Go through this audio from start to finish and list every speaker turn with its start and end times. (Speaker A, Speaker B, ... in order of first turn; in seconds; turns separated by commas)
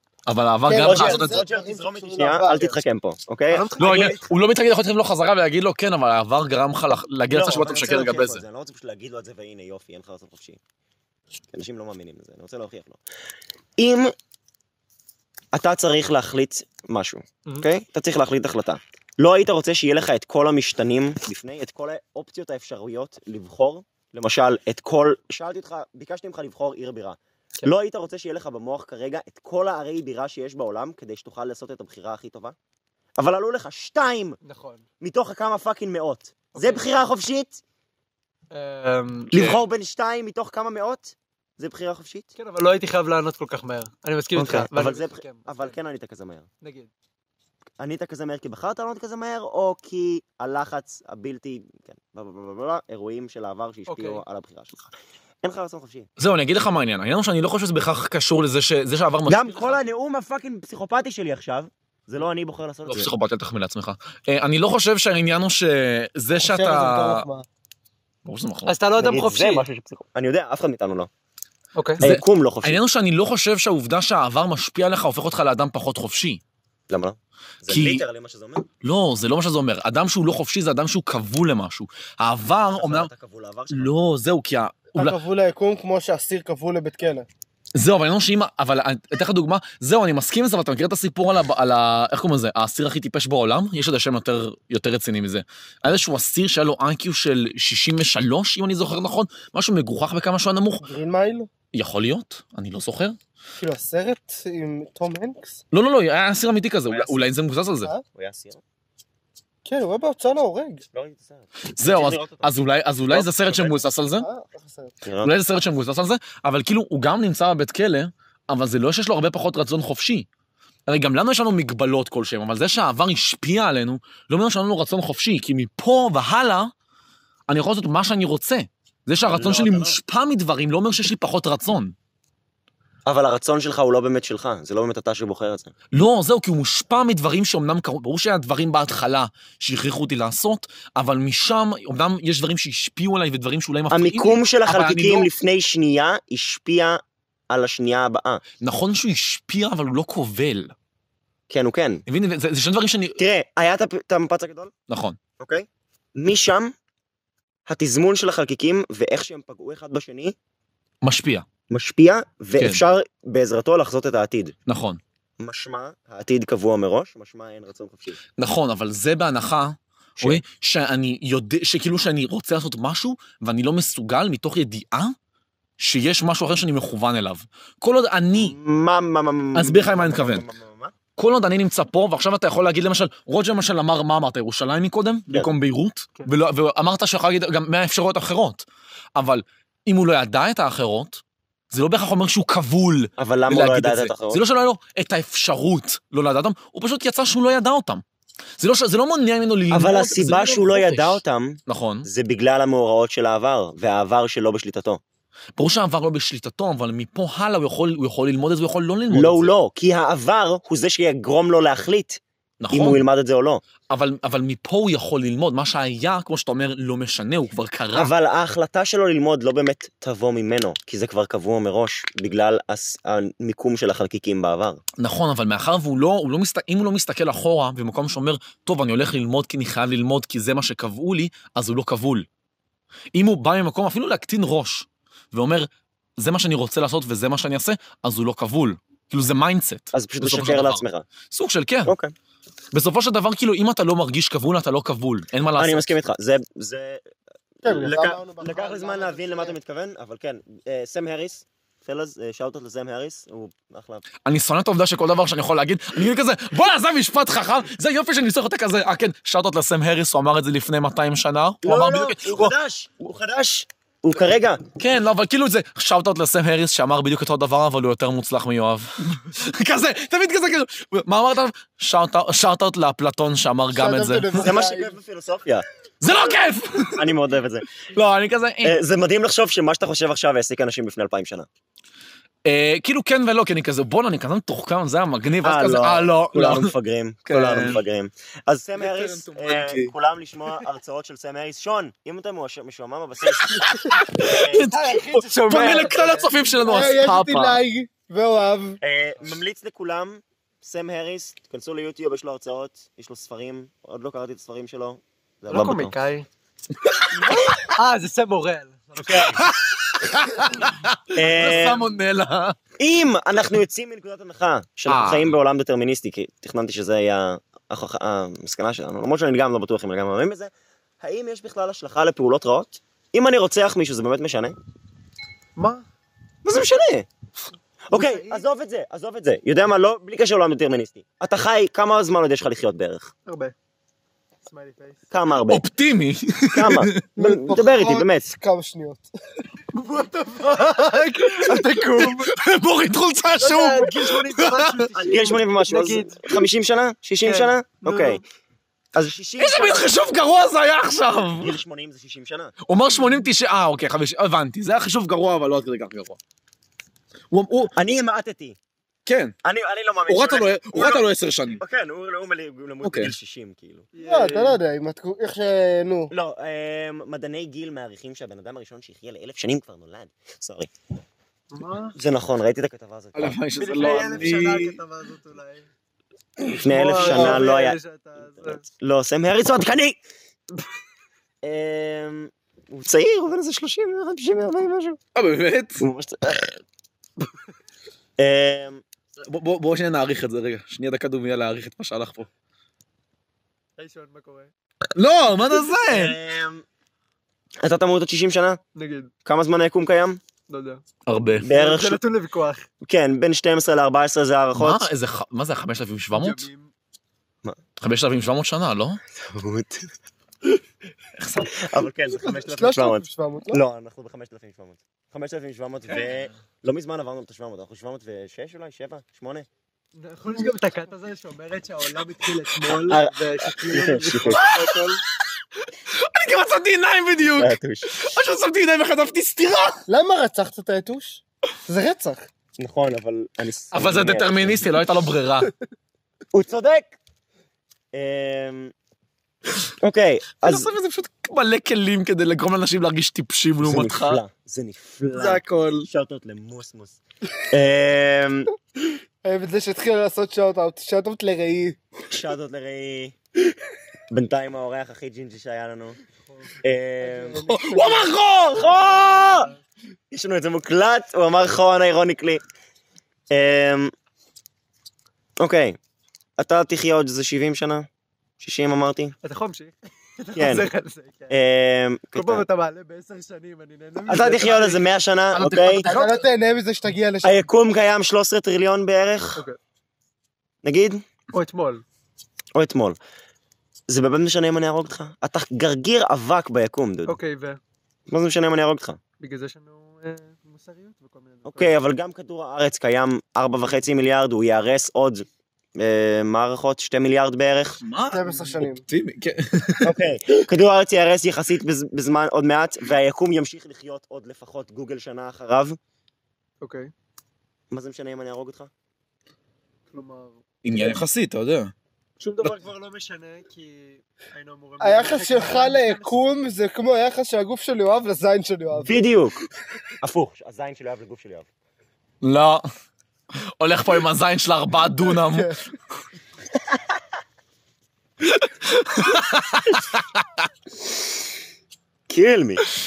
Speaker A: 0.3-1.4, Speaker B: 0.7-2.8, Speaker C: 0.7-4.1, Speaker D: 3.5-4.3, Speaker A: 3.8-8.4, Speaker C: 7.3-10.6, Speaker C: 11.5-13.0, Speaker C: 13.8-14.1, Speaker C: 15.5-32.6, Speaker C: 33.2-34.4, Speaker D: 34.4-34.9, Speaker C: 35.0-37.6, Speaker D: 36.5-36.9, Speaker D: 38.5-39.3, Speaker C: 39.3-42.3, Speaker A: 39.3-39.6, Speaker D: 42.4-45.8, Speaker C: 44.4-46.5, Speaker D: 46.6-46.9, Speaker C: 47.8-56.1, Speaker D: 53.9-54.2, Speaker A: 56.2-59.7, Speaker C: 59.3-63.1, Speaker A: 62.9-67.3, Speaker B: 66.4-67.5, Speaker A: 68.2-68.8, Speaker D: 68.7-69.7, Speaker C: 69.0-71.1, Speaker D: 71.8-72.0, Speaker C: 72.0-72.8, Speaker A: 72.0-76.4, Speaker C: 76.9-78.7, Speaker A: 77.7-78.0, Speaker A: 78.8-83.1, Speaker C: 82.8-83.9, Speaker A: 83.7-85.2, Speaker B: 84.9-87.3, Speaker A: 87.8-100.9, Speaker B: 100.8-101.5, Speaker A: 101.7-103.2, Speaker B: 103.6-105.6, Speaker A: 105.7-107.9, Speaker C: 106.9-107.2, Speaker C: 108.1-108.6, Speaker B: 109.7-110.8, Speaker C: 110.9-112.5, Speaker A: 111.7-114.3, Speaker C: 113.1-113.8, Speaker B: 114.2-114.9, Speaker C: 115.0-115.3, Speaker A: 115.2-120.3, Speaker A: 120.9-126.7, Speaker A: 127.5-131.9, Speaker C: 129.2-130.0, Speaker C: 133.1-135.7, Speaker A: 135.9-145.3, Speaker C: 143.9-148.4, Speaker A: 148.6-150.7, Speaker C: 151.5-152.0, Speaker A: 152.1-153.2, Speaker C: 153.2-154.7, Speaker A: 154.9-155.2, Speaker C: 155.4-156.7, Speaker C: 157.7-160.3, Speaker A: 161.0-161.5, Speaker C: 161.7-164.6, Speaker A: 162.6-162.8, Speaker A: 164.7-165.0, Speaker C: 165.4-168.2, Speaker A: 168.4-175.2, Speaker C: 170.2-170.4, Speaker A: 175.8-178.6, Speaker C: 178.3-180.9, Speaker A: 179.6-180.5, Speaker A: 181.2-188.7, Speaker A: 189.2-198.0, Speaker C: 193.2-194.4, Speaker A: 198.6-202.1, Speaker C: 199.7-205.0, Speaker A: 205.6-209.5, Speaker C: 209.1-213.6, Speaker A: 212.6-213.0, Speaker A: 213.9-218.1, Speaker C: 217.9-224.8, Speaker A: 225.0-232.3, Speaker A: 233.1-241.9, Speaker C: 239.9-241.1, Speaker C: 241.8-242.2, Speaker A: 242.7-245.9, Speaker C: 245.6-247.0, Speaker C: 247.6-254.0, Speaker B: 247.6-249.6, Speaker A: 254.2-262.6, Speaker C: 261.6-264.6, Speaker A: 264.8-274.6, Speaker B: 273.7-274.9, Speaker C: 274.4-276.3, Speaker A: 276.0-277.1, Speaker C: 276.9-277.7, Speaker A: 277.9-278.8, Speaker C: 278.6-281.5, Speaker A: 282.4-286.7, Speaker C: 285.4-294.7, Speaker A: 287.3-287.8, Speaker A: 288.8-289.9, Speaker A: 293.4-297.6, Speaker D: 294.7-296.8, Speaker B: 296.6-298.8, Speaker C: 298.8-305.9, Speaker D: 305.5-306.3, Speaker A: 306.9-307.7, Speaker D: 307.6-309.3, Speaker C: 309.0-309.4, Speaker A: 309.3-312.6, Speaker C: 311.1-311.9, Speaker C: 312.8-324.6, Speaker A: 314.9-315.4, Speaker D: 325.6-325.9, Speaker C: 326.4-327.1, Speaker C: 327.9-333.1, Speaker D: 327.9-328.4, Speaker D: 333.3-333.5, Speaker D: 334.4-335.1, Speaker C: 335.1-335.6, Speaker A: 335.5-337.1, Speaker C: 336.5-338.3, Speaker B: 337.2-339.1, Speaker D: 339.7-342.4, Speaker A: 341.5-344.9, Speaker D: 343.4-346.3, Speaker C: 344.9-348.2, Speaker D: 347.2-348.2, Speaker C: 348.9-349.9, Speaker A: 349.4-351.6, Speaker C: 351.4-352.6, Speaker A: 352.7-356.2, Speaker A: 357.3-357.7, Speaker C: 357.7-358.6, Speaker A: 359.1-359.4, Speaker C: 359.4-363.9, Speaker A: 360.1-361.6, Speaker A: 362.8-363.1, Speaker D: 363.9-364.6, Speaker B: 364.0-366.1, Speaker C: 366.1-370.7, Speaker D: 371.5-372.0, Speaker C: 371.9-374.3, Speaker A: 373.1-374.8, Speaker D: 373.6-375.7, Speaker C: 376.5-377.8, Speaker D: 376.6-378.6, Speaker B: 377.1-377.4, Speaker C: 378.4-380.0, Speaker C: 381.4-385.0, Speaker A: 385.1-385.9, Speaker C: 385.8-386.6, Speaker C: 388.2-388.8, Speaker A: 389.3-392.3, Speaker D: 393.8-394.5, Speaker A: 395.0-396.2, Speaker C: 395.9-396.6, Speaker C: 397.6-398.6, Speaker D: 398.8-399.1, Speaker C: 399.2-400.2, Speaker D: 400.5-400.8, Speaker A: 401.1-401.5, Speaker C: 401.4-402.0, Speaker D: 401.5-402.7, Speaker C: 402.8-404.9, Speaker A: 404.6-406.5, Speaker D: 406.1-406.7, Speaker A: 407.8-409.0, Speaker C: 409.1-409.9, Speaker A: 411.2-411.6, Speaker C: 411.5-419.5, Speaker B: 412.1-413.6, Speaker D: 420.0-425.0, Speaker C: 422.7-424.4, Speaker A: 424.3-424.9, Speaker A: 425.8-429.8, Speaker C: 427.3-427.9, Speaker B: 429.9-432.3, Speaker C: 432.6-434.7, Speaker A: 433.7-435.5, Speaker C: 436.3-437.0, Speaker C: 437.9-438.7, Speaker C: 439.8-440.7, Speaker A: 440.4-444.2, Speaker C: 443.6-447.0, Speaker A: 445.1-445.9, Speaker C: 447.5-448.5, Speaker B: 449.2-451.8, Speaker C: 452.1-453.2, Speaker C: 454.1-456.0, Speaker C: 456.6-457.4, Speaker B: 457.0-458.1, Speaker A: 457.4-458.9, Speaker C: 458.5-459.5, Speaker C: 460.1-462.4, Speaker C: 463.3-463.9, Speaker C: 465.4-465.8, Speaker C: 466.4-467.9, Speaker C: 468.4-469.1, Speaker D: 469.2-471.4, Speaker C: 470.4-470.7, Speaker C: 471.3-472.5, Speaker D: 472.1-474.9, Speaker C: 474.1-475.9, Speaker A: 475.3-476.2, Speaker B: 475.9-477.5, Speaker C: 477.2-479.4, Speaker C: 480.6-481.0, Speaker D: 481.3-481.8, Speaker C: 482.6-483.0, Speaker C: 483.9-487.2, Speaker D: 487.1-487.6, Speaker C: 488.1-489.0, Speaker D: 489.2-491.7, Speaker C: 491.4-495.2, Speaker C: 495.8-497.8, Speaker A: 497.8-500.4, Speaker B: 498.1-498.8, Speaker C: 499.8-505.8, Speaker D: 506.6-506.9, Speaker C: 507.7-508.7, Speaker D: 509.9-510.4, Speaker A: 510.6-511.7, Speaker D: 512.2-516.2, Speaker B: 514.8-519.0, Speaker C: 518.9-519.5, Speaker C: 520.0-521.5, Speaker A: 522.2-522.6, Speaker A: 523.6-525.6, Speaker B: 525.2-525.6, Speaker A: 528.2-530.5, Speaker C: 532.1-532.6